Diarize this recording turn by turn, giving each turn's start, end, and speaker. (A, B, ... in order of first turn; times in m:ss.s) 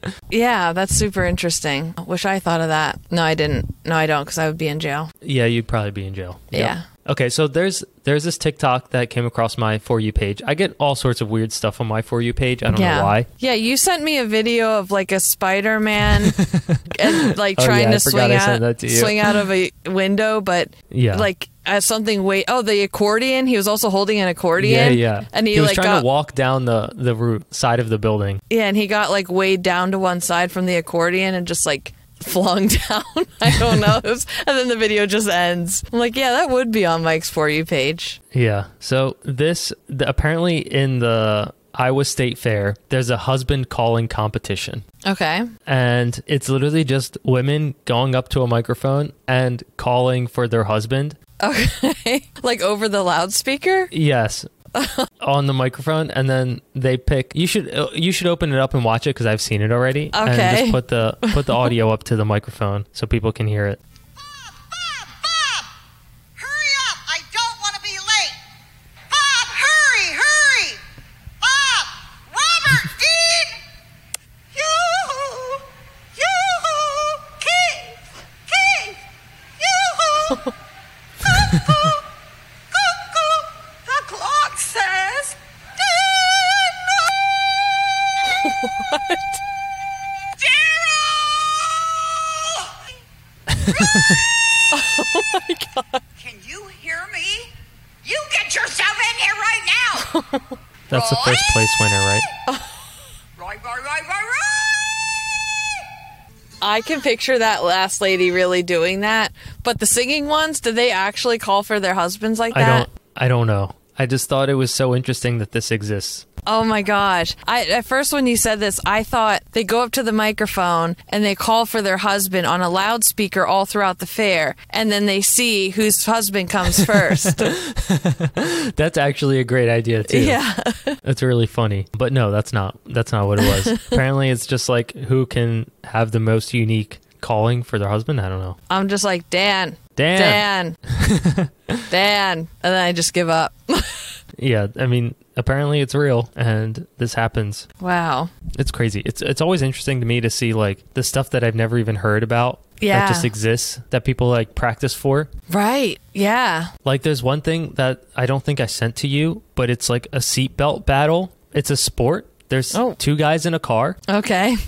0:00.3-0:05.1 A
0:05.2-0:13.3 B
0:06.5-0:06.9 A
0:12.7-0:16.4 A
0:16.2-0:19.4 B
0:16.9-0:26.0 A
0:20.9-0:21.3 B
0:24.6-0:28.4 B
0:28.5-0:38.2 A
0:38.3-0:44.8 B
0:45.0-0:45.5 A
0:45.7-0:51.2 B
0:51.4-0:53.9 A
0:53.9-0:54.5 B
0:54.7-0:55.1 A
0:55.2-1:03.8 B
1:00.1-1:01.7 A
1:04.2-1:05.7 C
1:06.4-1:08.4 C
1:09.1-1:10.8 C
1:11.4-1:13.6 C
1:14.5-1:15.6 C
1:16.2-1:18.0 C
1:18.5-1:19.0 C
1:19.6-1:20.4 C
1:21.6-1:21.9 C
1:22.7-1:24.8 C
1:24.2-1:25.4 A
1:25.9-1:26.7 C
1:28.4-1:29.4 A
1:30.4-1:31.8 C
1:33.5-1:34.2 B
1:34.7-1:36.0 A
1:36.2-1:37.5 C
1:38.0-1:40.1 C
1:40.0-1:40.4 A
1:40.9-1:42.3 B
1:40.9-1:41.5 C
1:43.4-1:44.8 C
1:46.6-1:52.9 A
1:52.5-1:56.3 B
1:56.4-2:07.5 A
2:06.8-2:10.4 B
2:10.1-2:11.0 A
2:11.0-2:18.6 B
2:13.4-2:14.0 A
2:18.7-2:20.8 A
2:20.0-2:21.9 B
2:21.9-2:24.1 A
2:24.4-2:27.7 B
2:27.8-2:28.3 A
2:28.5-2:35.3 B
2:32.8-2:33.3 A
2:35.5-2:36.7 A
2:36.8-2:44.0 B
2:44.1-2:44.6 A